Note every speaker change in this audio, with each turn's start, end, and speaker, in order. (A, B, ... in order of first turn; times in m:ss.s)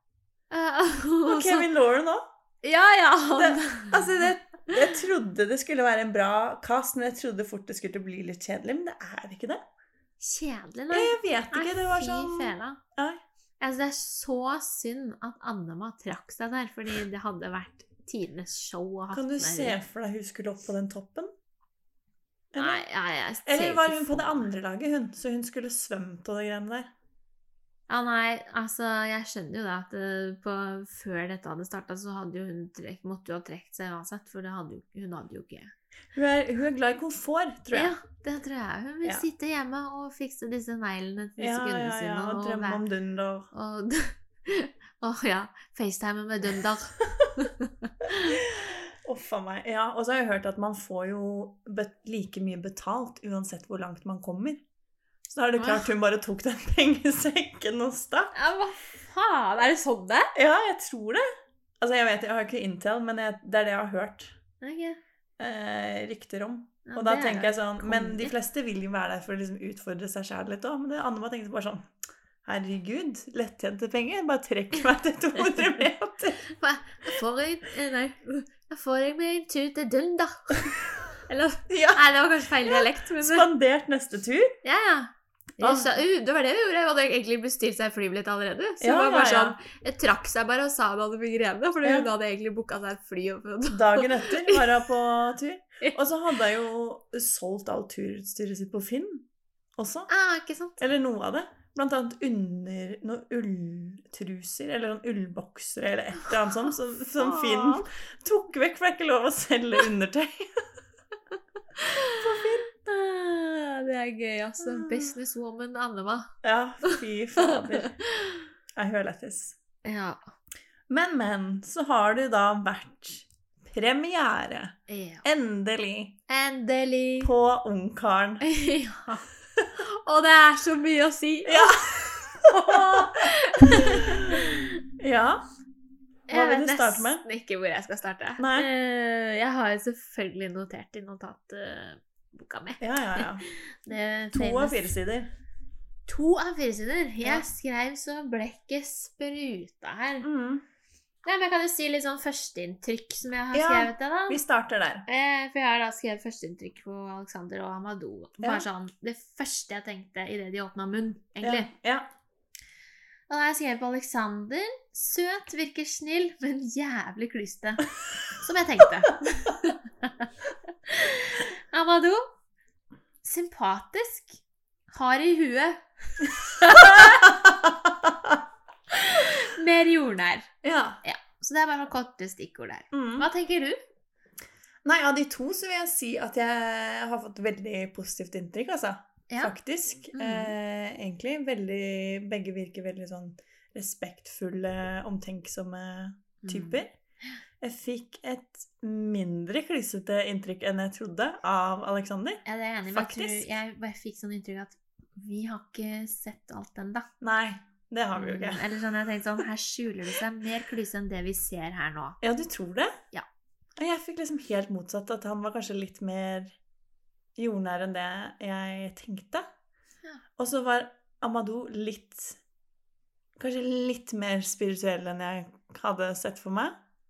0:00.5-0:01.7 A
0:01.3-0:02.2 B
0:02.6-0:04.3 A
0:03.3-0:09.6 B
0:10.2-0:12.8 A
0:10.9-0:13.2 B
0:13.6-0:19.8 A
0:19.1-0:21.3 B
0:22.5-0:22.8 B
0:22.6-0:24.5 A
0:23.4-0:26.9 B
0:27.9-0:35.7 A
0:36.1-0:38.0 B
0:37.7-0:42.8 A
0:41.4-0:43.5 B
0:43.5-0:48.4 A
0:48.2-0:54.6 B
0:55.3-0:58.4 B
0:55.6-0:55.9 A
0:58.3-1:00.3 A
1:00.4-1:01.2 B
1:01.8-1:04.4 B
1:04.6-1:05.0 A
1:05.4-1:11.9 B
1:06.9-1:08.3 A
1:12.4-1:16.5 B
1:16.5-1:20.7 A
1:21.3-1:23.5 A
1:21.7-1:24.6 B
1:24.6-1:34.7 A
1:25.6-1:26.0 B
1:28.8-1:29.6 B
1:31.8-1:32.1 B
1:33.7-1:40.1 B
1:40.1-1:40.8 A
1:40.8-1:50.7 B
1:47.2-1:47.9 A
1:51.8-1:56.3 A
1:52.2-1:52.7 B
1:54.6-1:55.1 B
1:56.4-1:58.0 B
1:56.8-1:58.4 A
1:58.8-1:59.6 B
1:59.8-2:00.2 A
2:00.9-2:06.2 B
2:04.9-2:05.2 A
2:06.3-2:07.3 A
2:07.2-2:08.4 B
2:08.4-2:11.9 A
2:11.4-2:15.4 B
2:12.4-2:14.8 A
2:16.3-2:24.9 A
2:16.3-2:17.2 B
2:18.4-2:18.7 B
2:22.8-2:23.5 B
2:24.3-2:25.3 B
2:26.1-2:30.3 A
2:30.2-2:30.6 B
2:31.2-2:34.4 A
2:33.5-2:35.1 B
2:35.1-2:41.7 A
2:38.4-2:38.7 B
2:41.4-2:42.1 B
2:43.3-2:50.3 A
2:50.8-2:52.2 A
2:53.2-2:54.4 A
2:54.9-2:57.3 A
2:56.6-2:58.4 B
2:58.9-3:00.5 A
3:00.6-3:01.0 B
3:01.0-3:03.8 A
3:02.9-3:03.3 B
3:04.8-3:16.9 B
3:10.1-3:10.5 A
3:16.4-3:16.8 A
3:17.6-3:22.4 B
3:22.4-3:27.1 A
3:22.9-3:23.5 B
3:27.2-3:28.6 B
3:28.1-3:32.2 A
3:32.2-3:32.9 B
3:33.8-3:36.6 B
3:37.4-3:39.5 B
3:40.4-3:42.4 B
3:43.4-3:46.8 B